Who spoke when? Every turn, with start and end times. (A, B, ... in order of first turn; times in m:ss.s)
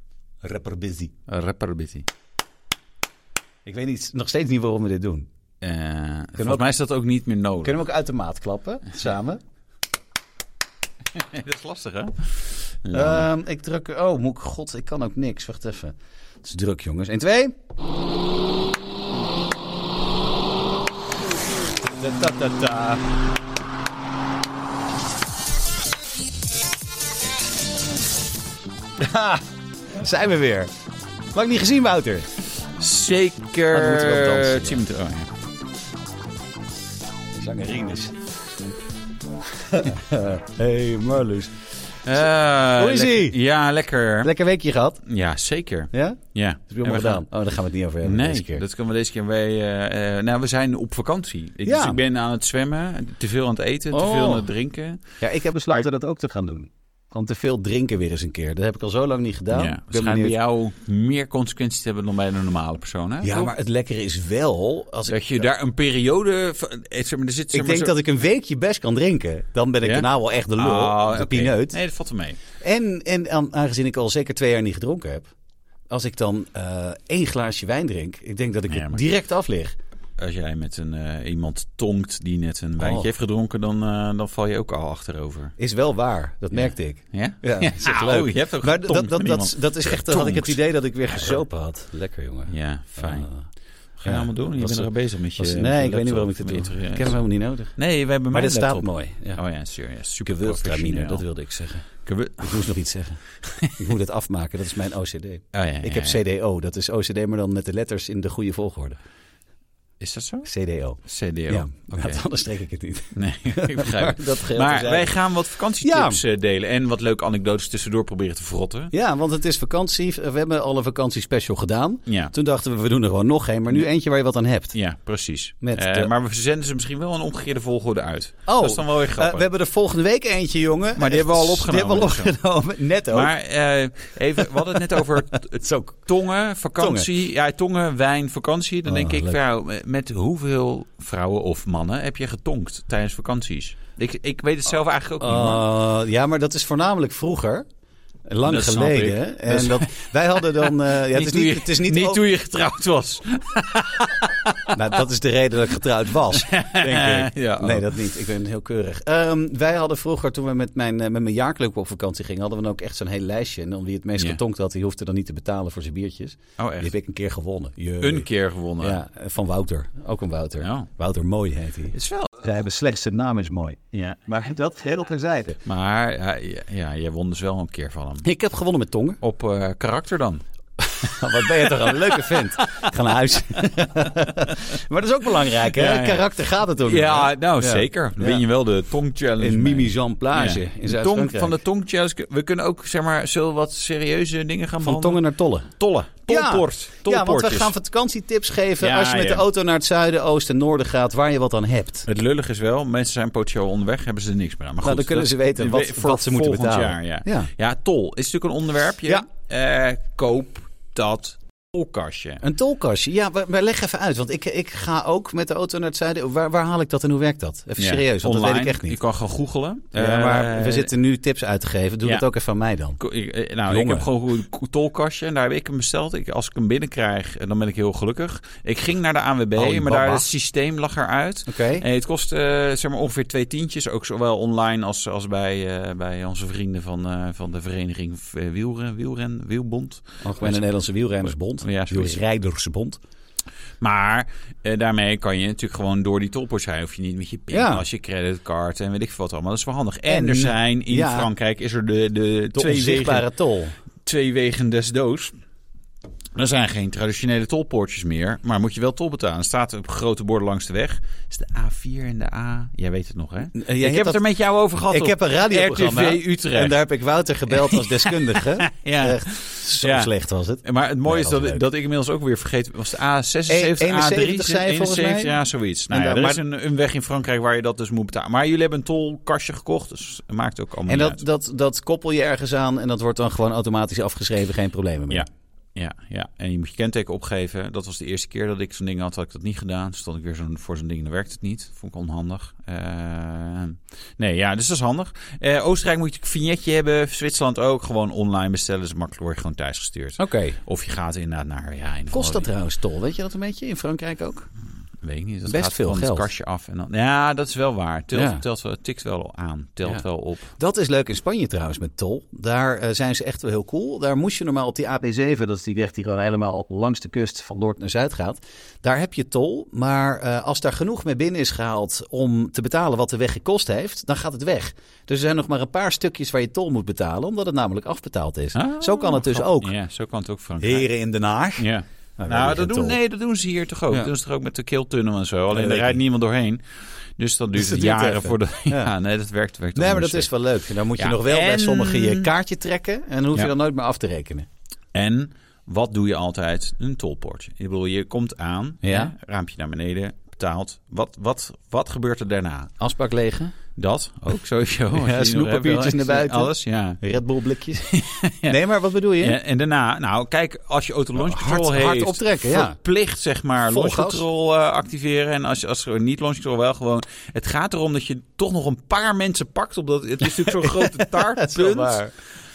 0:00.4-0:01.1 A
0:01.3-0:02.0 B
0:03.6-0:05.3 A
0:05.6-0:07.8 B
0:06.4-0:06.6 A
0:07.6-0:09.4 A
0:11.1-0:13.3 B
0:12.9-0:17.5 A
0:21.9-0:23.0 A
0:29.0-0:30.7 A
0:31.3-0:32.3 A
0:32.8-0:35.3 B
0:33.7-0:34.8 A
0:37.3-0:38.2 A
0:39.6-0:41.5 A
0:42.0-0:44.3 B
0:42.7-0:43.4 A
0:44.2-0:45.0 A
0:45.0-0:47.2 B
0:45.9-0:48.6 A
0:48.0-0:55.0 B
0:51.6-0:52.0 A
0:53.9-0:54.5 A
0:55.2-1:00.4 A
0:59.5-1:03.5 B
1:03.2-1:05.4 A
1:05.1-1:07.9 B
1:07.5-1:11.8 A
1:09.8-1:12.4 B
1:12.6-1:15.3 A
1:15.9-1:19.8 A
1:18.7-1:19.0 B
1:20.2-1:25.5 B
1:22.8-1:23.1 A
1:25.6-1:33.5 A
1:26.5-1:30.6 B
1:32.5-1:33.3 B
1:34.0-1:37.2 B
1:34.0-1:37.8 A
1:37.8-1:41.2 B
1:38.3-1:39.4 A
1:40.2-1:49.0 A
1:42.0-1:42.6 B
1:43.4-1:43.8 B
1:45.5-1:46.2 B
1:50.0-1:50.5 B
1:50.4-1:55.2 A
1:51.0-1:52.2 B
1:53.1-1:58.9 B
1:55.8-1:56.2 A
1:58.9-2:04.8 A
2:02.1-2:02.3 B
2:04.7-2:09.5 B
2:05.6-2:06.1 A
2:08.5-2:13.3 A
2:10.9-2:12.3 B
2:13.1-2:25.6 B
2:15.4-2:16.0 A
2:16.8-2:17.1 A
2:18.8-2:19.4 A
2:25.2-2:27.6 A
2:28.2-2:32.2 A
2:28.4-2:34.8 B
2:34.7-2:55.6 A
2:36.3-2:38.0 B
2:46.6-2:46.9 B
2:48.0-2:49.0 B
2:50.6-2:50.9 B
2:51.9-2:52.3 B
2:55.6-2:58.2 B
2:58.2-2:59.2 A
2:59.2-3:00.4 B
3:00.9-3:08.4 A
3:01.0-3:02.9 B
3:05.6-3:06.3 B
3:06.8-3:17.7 B
3:09.4-3:11.6 A
3:14.8-3:15.7 A
3:16.2-3:22.0 A
3:18.8-3:19.4 B
3:22.0-3:32.4 B
3:24.8-3:27.5 A
3:32.4-3:39.0 A
3:37.8-3:40.9 B
3:39.9-3:43.0 A
3:43.0-4:00.6 B
3:43.7-3:44.1 A
3:49.5-3:50.3 A
3:51.5-3:51.8 A
4:00.2-4:03.0 A
4:01.2-4:02.2 B
4:03.8-4:13.3 B
4:07.5-4:07.8 A
4:10.1-4:11.3 A
4:12.5-4:13.8 A
4:14.0-4:15.3 B
4:16.3-4:26.8 B
4:23.5-4:24.2 A
4:24.9-4:31.6 A
4:27.5-4:30.1 B
4:30.6-4:41.2 B
4:33.5-4:35.3 A
4:35.9-4:36.4 A
4:40.9-4:45.2 A
4:45.1-5:02.5 B
5:00.2-5:00.6 A
5:02.1-5:04.5 A
5:05.0-5:10.5 B
5:05.4-5:06.3 A
5:08.1-5:08.4 A
5:10.6-5:29.7 A
5:28.5-5:30.9 B
5:30.6-5:33.0 A
5:31.6-5:40.3 B
5:35.5-5:36.0 A
5:37.5-5:38.9 A
5:39.7-5:44.5 A
5:40.8-5:42.3 B
5:44.9-5:52.7 B
5:48.8-5:49.1 A
5:52.8-5:53.6 A
5:53.8-5:57.0 B
5:54.9-5:59.4 A
5:57.9-5:58.6 B
5:59.2-6:12.1 B
6:01.2-6:02.8 A
6:03.6-6:04.2 A
6:10.4-6:12.1 A